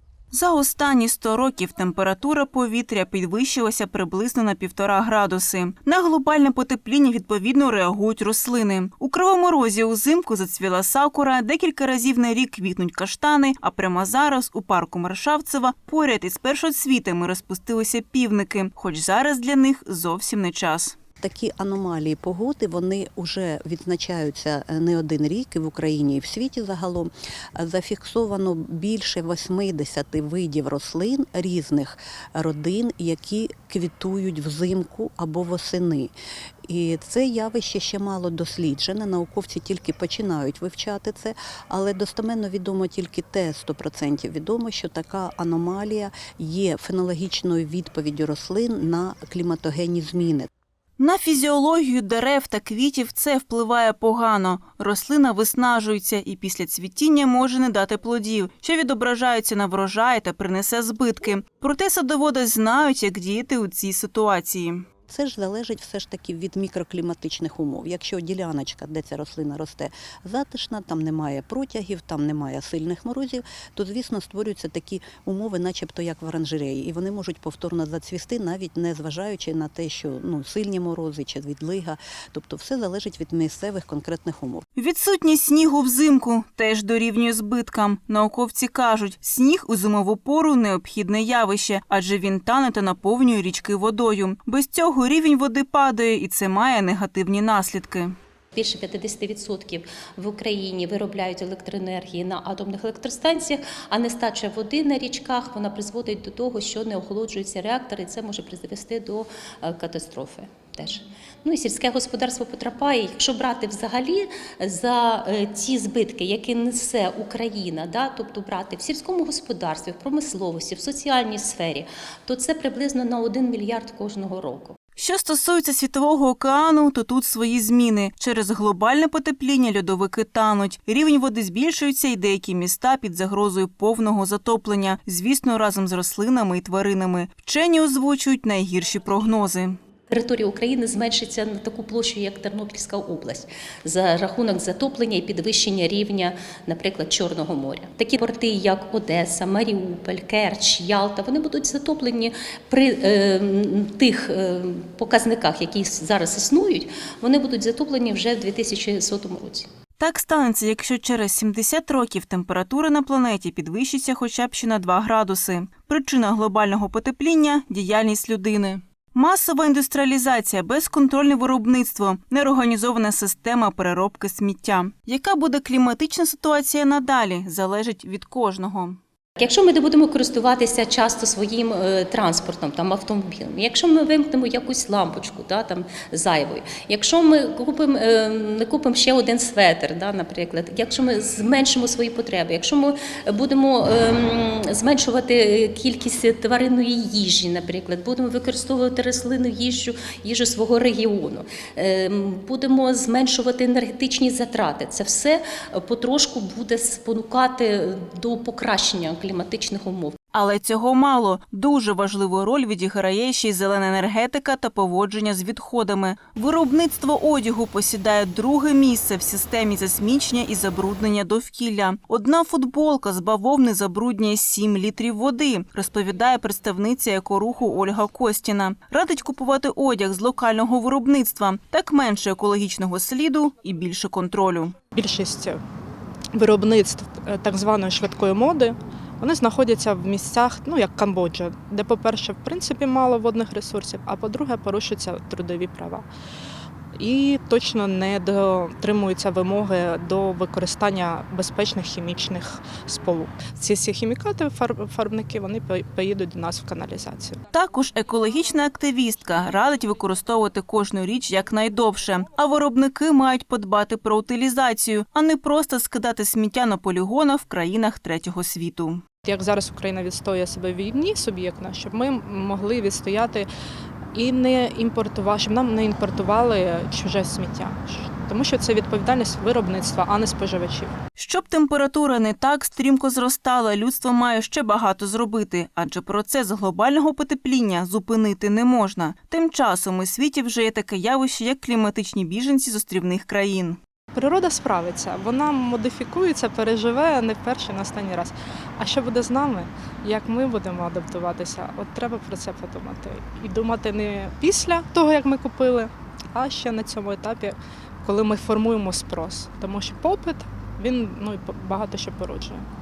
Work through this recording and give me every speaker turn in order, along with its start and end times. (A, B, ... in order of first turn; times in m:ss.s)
0:00.3-0:21.0 A
0:21.2-0:36.1 B
0:36.7-0:50.5 B
0:51.0-1:04.8 A
1:05.1-1:24.6 B
1:24.8-1:38.1 A
1:38.6-2:04.8 C
2:05.0-2:19.8 A
2:20.1-2:39.7 C
2:40.0-2:59.0 A
2:59.4-3:30.2 C
3:30.3-3:54.7 A
3:54.9-3:55.6 D
3:56.3-4:06.1 D
4:07.0-4:17.4 D
4:17.5-4:29.0 A
4:29.2-4:33.5 D
4:34.1-4:40.9 D
4:41.2-4:53.8 A
4:54.1-5:12.6 D